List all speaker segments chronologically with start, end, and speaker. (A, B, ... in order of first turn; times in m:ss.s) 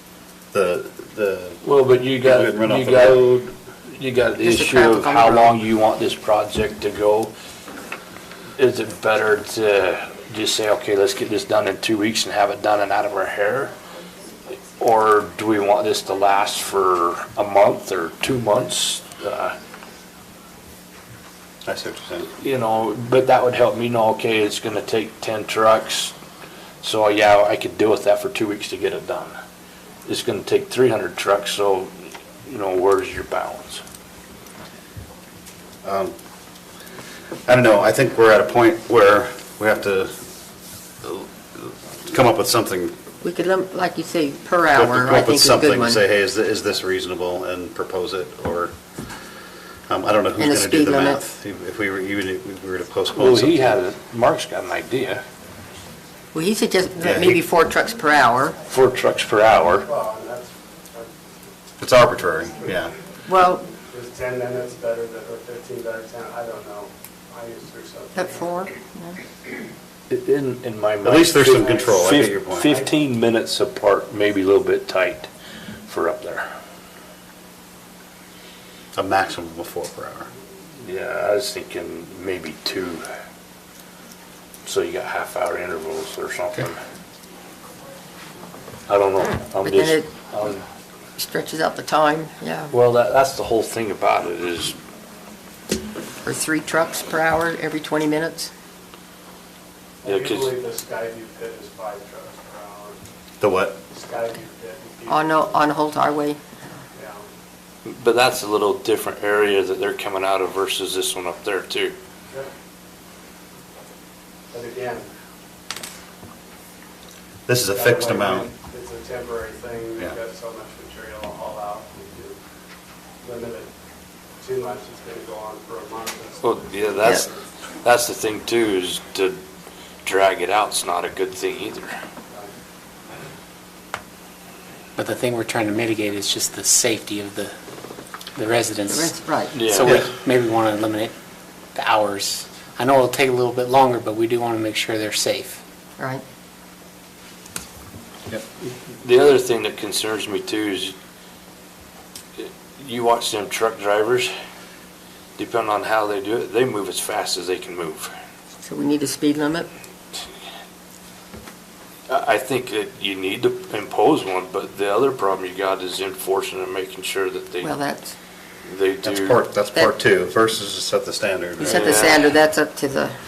0:00.5-0:01.6 A
0:01.6-0:07.3 B
0:02.2-0:03.2 A
0:04.4-0:05.6 C
0:08.6-0:13.7 B
0:14.8-0:19.6 B
0:21.6-0:22.3 A
0:22.4-0:26.1 B
0:26.8-0:29.4 B
0:30.1-0:33.8 B
0:35.8-0:36.2 A
0:37.5-0:40.2 A
0:41.0-0:43.0 A
0:43.2-0:46.0 C
0:44.7-0:48.7 A
0:49.9-0:53.8 A
0:50.4-0:51.2 C
0:53.1-0:55.2 B
0:56.3-0:58.6 C
0:57.0-0:57.4 A
0:58.7-0:59.9 B
0:59.7-1:01.5 D
1:01.8-1:02.9 A
1:03.3-1:03.6 C
1:03.9-1:08.7 D
1:08.2-1:09.2 C
1:10.1-1:15.3 B
1:11.0-1:12.8 A
1:11.5-1:12.0 D
1:12.6-1:12.9 D
1:15.9-1:16.5 B
1:19.0-1:20.3 A
1:20.8-1:23.0 B
1:24.6-1:26.8 B
1:28.9-1:30.6 B
1:29.6-1:30.1 C
1:31.2-1:32.7 C
1:32.7-1:34.8 B
1:36.2-1:38.5 C
1:40.0-1:43.0 D
1:40.0-1:40.5 B
1:43.4-1:43.8 A
1:43.9-1:45.7 D
1:45.1-1:46.4 C
1:46.9-1:47.3 D
1:47.8-1:52.0 B
1:54.5-1:55.1 D
1:57.5-1:58.5 A
1:57.7-2:02.4 D
2:03.2-2:03.7 D
2:04.4-2:07.1 D
2:06.4-2:09.4 B
2:10.0-2:12.0 B
2:15.0-2:17.6 E
2:18.4-2:21.1 E
2:18.9-2:19.6 C
2:19.5-2:20.1 B
2:21.8-2:25.6 E
2:26.0-2:26.2 C
2:28.9-2:31.0 B
2:32.4-2:34.3 B
2:35.4-2:38.1 B
2:38.6-2:39.7 C
2:42.1-2:47.7 B
2:47.6-2:48.2 C
2:48.6-2:49.4 B
2:49.0-2:52.2 A
2:51.6-2:53.2 C
2:51.7-2:52.4 B